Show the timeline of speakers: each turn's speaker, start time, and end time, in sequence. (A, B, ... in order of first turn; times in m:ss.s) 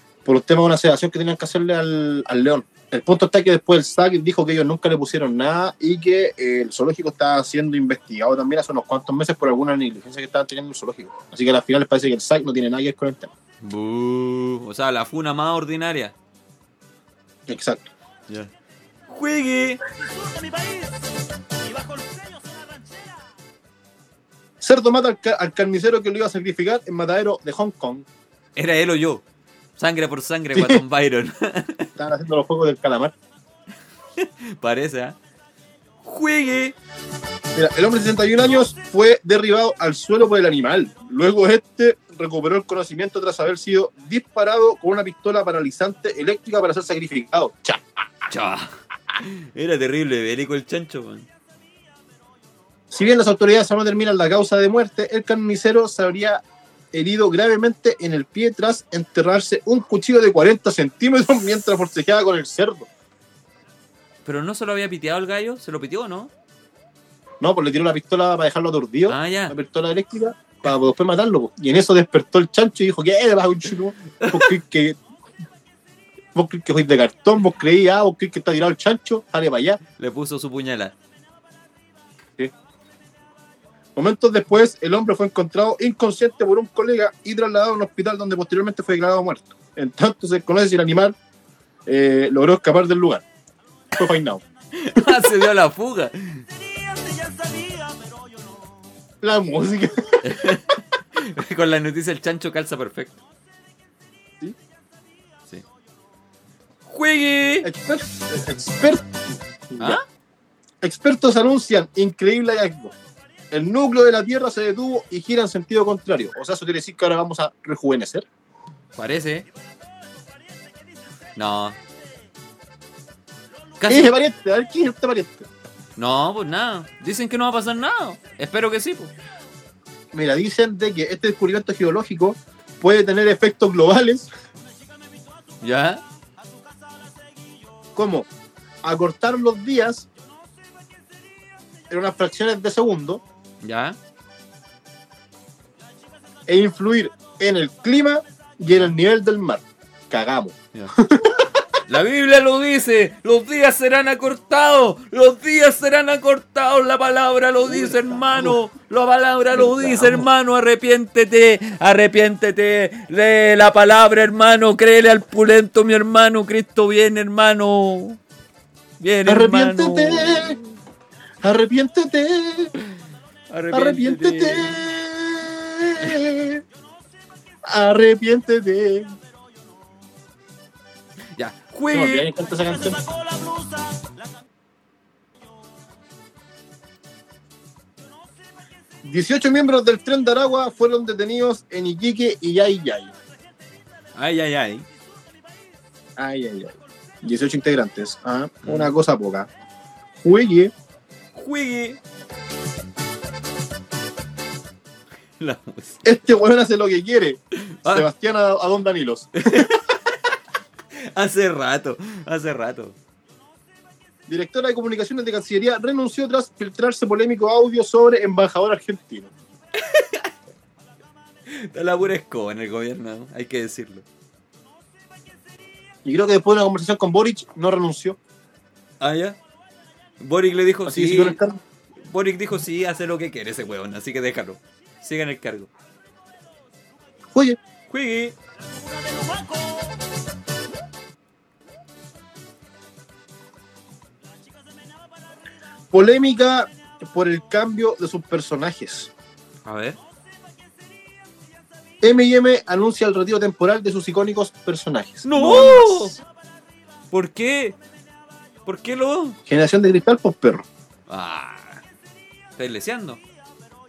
0:00.2-0:13.3 A
0:13.6-0:16.1 B
0:17.5-0:17.9 A
0:19.1-0:19.8 B
0:20.0-0:23.2 C
0:24.6-0:28.0 A
0:28.6-0:29.2 B
0:29.8-0:32.0 B
0:30.5-0:30.8 A
0:32.0-0:33.1 A
0:34.2-0:35.2 B
0:36.0-0:36.8 B
0:37.5-0:47.8 A
0:48.3-0:51.3 B
0:52.9-1:02.9 A
1:04.2-1:06.3 B
1:07.4-1:15.0 A
1:09.1-1:09.5 B
1:14.2-1:14.5 B
1:16.3-1:19.8 A
1:20.0-1:20.9 B
1:24.0-1:31.1 A
1:31.8-1:33.2 A
1:33.9-1:34.4 A
1:34.7-1:36.4 B
1:36.5-1:38.7 C
1:39.2-1:40.3 A
1:40.2-1:43.2 B
1:46.8-1:47.7 B
1:47.6-1:49.2 A
1:49.7-1:50.0 A
1:49.8-1:50.0 B
1:50.8-1:52.9 A
1:53.5-1:58.2 A
1:58.9-1:59.5 B
2:01.4-2:01.8 B
2:03.8-2:04.1 B
2:03.9-2:05.5 A
2:06.0-2:09.1 B
2:10.1-2:14.3 A
2:15.6-2:16.0 B
2:17.9-2:18.3 A
2:18.8-2:20.0 A
2:21.9-2:23.2 A
2:23.6-2:24.0 B
2:26.5-2:31.5 A
2:31.8-2:48.2 B
2:37.6-2:38.6 A
2:39.5-2:40.3 A
2:49.0-2:50.6 B
2:49.2-2:50.6 A
2:51.4-2:52.7 A
2:53.5-2:54.8 B
2:53.7-2:56.6 A
2:57.6-2:59.1 A
3:01.4-3:02.3 B
3:01.9-3:03.0 A
3:02.5-3:04.2 C
3:09.0-3:13.1 A
3:14.1-3:14.9 B
3:16.2-3:19.5 A
3:18.6-3:18.9 B
3:20.2-3:20.7 A
3:21.3-3:22.0 B
3:25.4-3:26.0 B
3:26.0-3:29.7 A
3:27.6-3:28.1 B
3:29.4-3:30.2 B
3:30.9-3:33.0 B
3:34.3-3:39.3 A
3:39.8-3:40.3 B
3:41.5-3:44.0 B
3:46.0-3:48.2 A
3:49.0-3:49.4 B
3:50.2-3:51.4 B
3:50.8-3:51.6 A
3:52.0-3:55.7 B
3:57.3-3:57.6 A
3:57.9-3:58.4 B
3:58.6-4:00.0 C
4:05.9-4:09.1 A
4:09.6-4:10.0 B
4:12.0-4:16.2 A
4:15.2-4:16.2 B
4:17.1-4:17.8 B
4:18.6-4:19.4 B
4:19.4-4:20.7 A
4:21.1-4:21.8 B
4:22.6-4:23.2 B